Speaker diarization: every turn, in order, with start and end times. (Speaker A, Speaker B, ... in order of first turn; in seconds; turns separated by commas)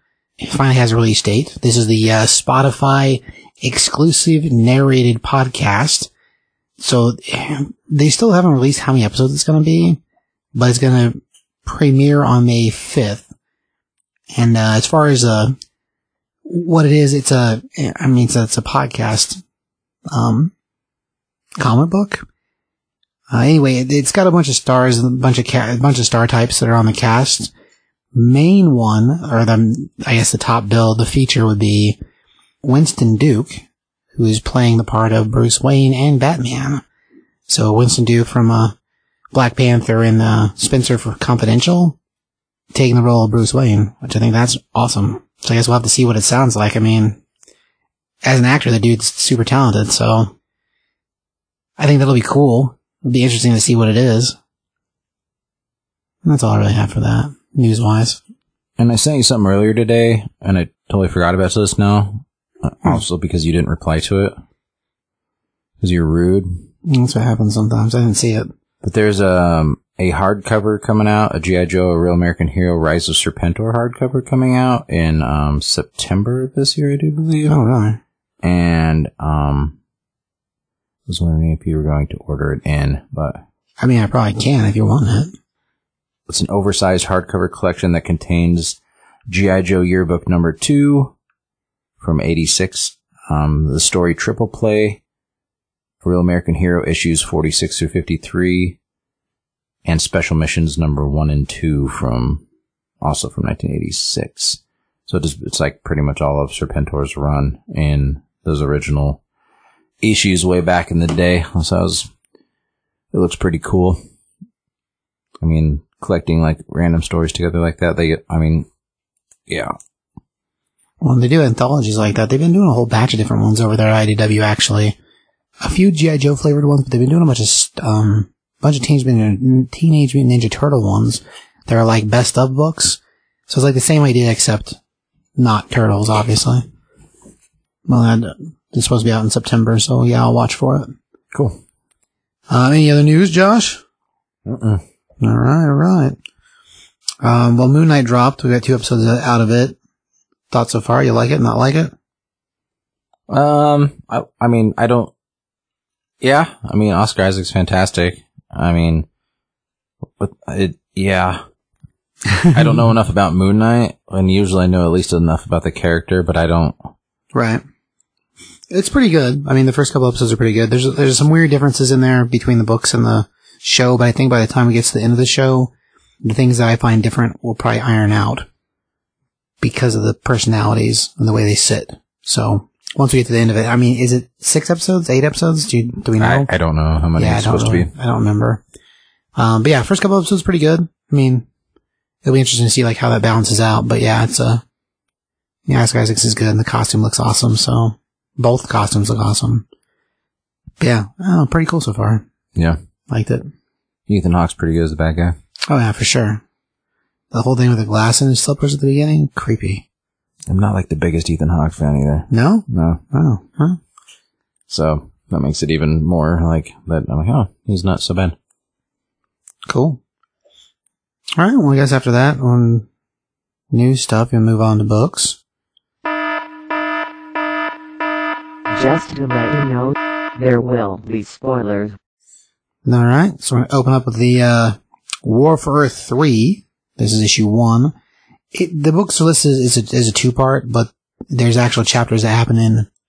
Speaker A: 0.4-6.1, Speaker A: 6.8-10.0, Speaker A: 10.5-13.3, Speaker A: 14.3-15.6, Speaker A: 16.5-19.4, Speaker A: 20.1-20.5, Speaker A: 21.6-22.2, Speaker A: 23.3-27.5, Speaker A: 28.1-32.0, Speaker A: 32.6-36.8, Speaker A: 37.5-38.7, Speaker A: 39.3-42.0, Speaker A: 42.7-47.2, Speaker A: 48.2-50.3, Speaker A: 51.8-54.4, Speaker A: 56.2-58.2, Speaker B: 58.8-64.3, Speaker B: 65.8-66.6, Speaker A: 66.9-68.5, Speaker B: 68.8-77.5, Speaker A: 77.5-78.0, Speaker B: 78.4-79.8, Speaker B: 81.1-83.4, Speaker A: 83.8-85.3, Speaker B: 86.3-91.1, Speaker B: 92.0-95.0, Speaker B: 96.0-98.8, Speaker B: 99.8-102.4, Speaker B: 103.0-109.2, Speaker B: 110.0-112.1, Speaker B: 113.1-114.0, Speaker B: 115.4-118.7, Speaker B: 119.5-119.7, Speaker A: 121.0-125.0, Speaker A: 125.6-134.8, Speaker A: 135.4-136.7, Speaker A: 137.9-140.9, Speaker B: 141.3-141.6, Speaker A: 142.5-143.8, Speaker B: 144.5-144.8, Speaker A: 145.2-146.2, Speaker A: 147.2-149.8, Speaker A: 150.5-151.9, Speaker B: 153.3-155.1, Speaker B: 156.2-159.1, Speaker B: 160.2-161.4, Speaker B: 162.5-166.9, Speaker A: 167.3-167.6, Speaker A: 168.7-175.7, Speaker A: 176.2-178.4, Speaker A: 179.6-186.5, Speaker B: 186.2-187.9, Speaker A: 187.2-188.6, Speaker A: 189.3-191.4, Speaker A: 192.2-194.6, Speaker A: 195.7-199.6, Speaker A: 200.8-202.2, Speaker A: 203.1-203.5, Speaker B: 204.1-205.3, Speaker A: 205.7-206.4, Speaker A: 207.3-209.8, Speaker B: 210.5-213.0, Speaker A: 212.3-213.8, Speaker B: 214.7-218.3, Speaker A: 219.7-220.0, Speaker A: 221.4-222.8, Speaker A: 223.7-225.4, Speaker C: 228.7-232.0, Speaker A: 232.8-237.9, Speaker A: 238.5-242.9